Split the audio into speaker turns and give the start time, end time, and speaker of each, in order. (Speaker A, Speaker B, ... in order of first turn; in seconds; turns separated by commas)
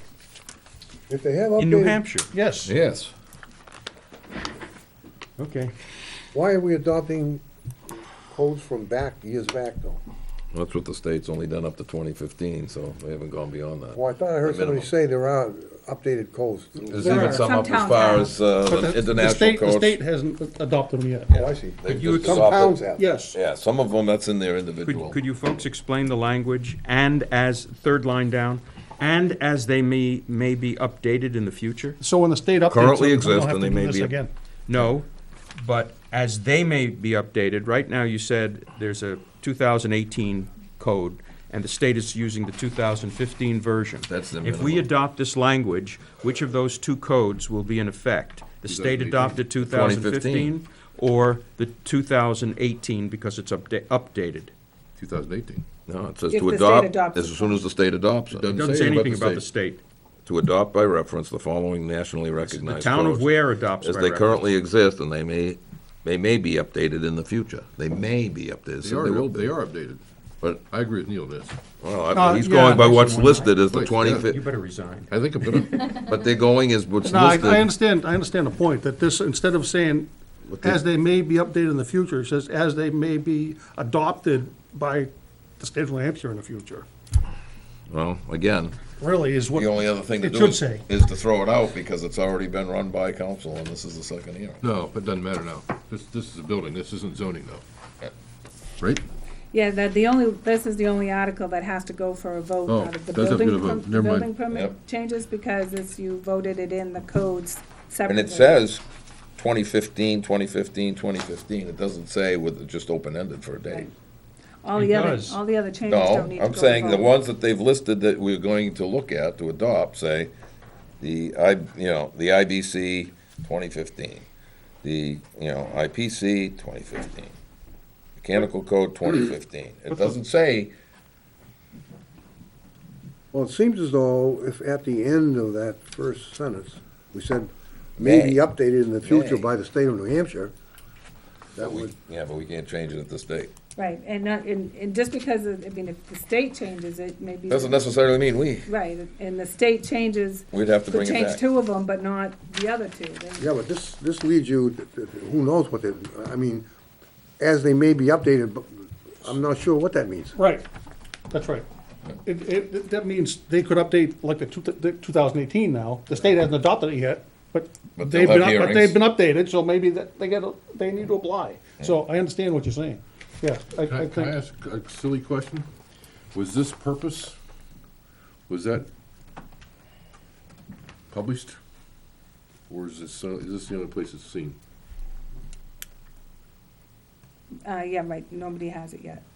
Speaker A: 1.1-2.0, Speaker B: 1.6-2.3, Speaker C: 2.3-2.7, Speaker D: 2.6-3.1, Speaker B: 5.4-5.7, Speaker A: 6.3-7.4, Speaker A: 8.1-10.0, Speaker D: 10.5-14.9, Speaker A: 13.9-17.0, Speaker D: 16.9-20.0, Speaker E: 17.0-18.3, Speaker C: 17.0-17.6, Speaker C: 18.6-21.3, Speaker D: 21.3-22.8, Speaker A: 21.3-23.0, Speaker B: 21.9-22.5, Speaker C: 23.0-23.4, Speaker D: 23.3-25.2, Speaker B: 24.8-32.0, Speaker C: 32.0-34.3, Speaker D: 32.7-34.1, Speaker B: 34.7-54.5, Speaker D: 44.1-44.9, Speaker F: 48.6-49.9, Speaker D: 49.6-50.5, Speaker F: 55.0-55.6, Speaker D: 55.9-59.4, Speaker E: 56.3-57.6, Speaker F: 58.3-59.4, Speaker B: 58.5-59.8, Speaker D: 60.3-63.3, Speaker B: 62.5-64.4, Speaker D: 63.8-69.5, Speaker F: 68.8-70.0, Speaker F: 70.6-71.6, Speaker D: 71.8-74.4, Speaker C: 72.1-73.6, Speaker F: 73.6-74.3, Speaker B: 74.2-75.1, Speaker F: 75.1-75.9, Speaker D: 75.6-77.7, Speaker C: 77.0-86.8, Speaker D: 80.5-80.8, Speaker D: 87.9-88.8, Speaker C: 89.0-90.8, Speaker D: 89.5-94.6, Speaker F: 94.6-97.6, Speaker E: 99.5-108.6, Speaker F: 102.7-104.3, Speaker D: 108.1-108.8, Speaker D: 109.4-113.9, Speaker E: 114.6-117.1, Speaker B: 114.8-115.4, Speaker D: 115.9-120.3, Speaker D: 121.0-124.2, Speaker D: 124.8-127.3, Speaker D: 128.2-130.7, Speaker A: 133.3-140.5, Speaker D: 138.0-138.4, Speaker D: 139.0-139.5, Speaker A: 141.5-141.9, Speaker D: 141.6-143.5, Speaker E: 143.8-147.9, Speaker D: 147.5-148.7, Speaker E: 148.7-153.5, Speaker D: 150.5-151.4, Speaker A: 153.4-156.6, Speaker A: 157.4-160.3, Speaker C: 160.3-160.6, Speaker C: 161.3-161.6, Speaker C: 162.2-174.4, Speaker D: 167.9-169.0, Speaker F: 173.8-175.7, Speaker F: 176.3-177.3, Speaker F: 178.5-178.9, Speaker F: 181.1-181.6, Speaker F: 182.7-184.6, Speaker E: 187.6-189.2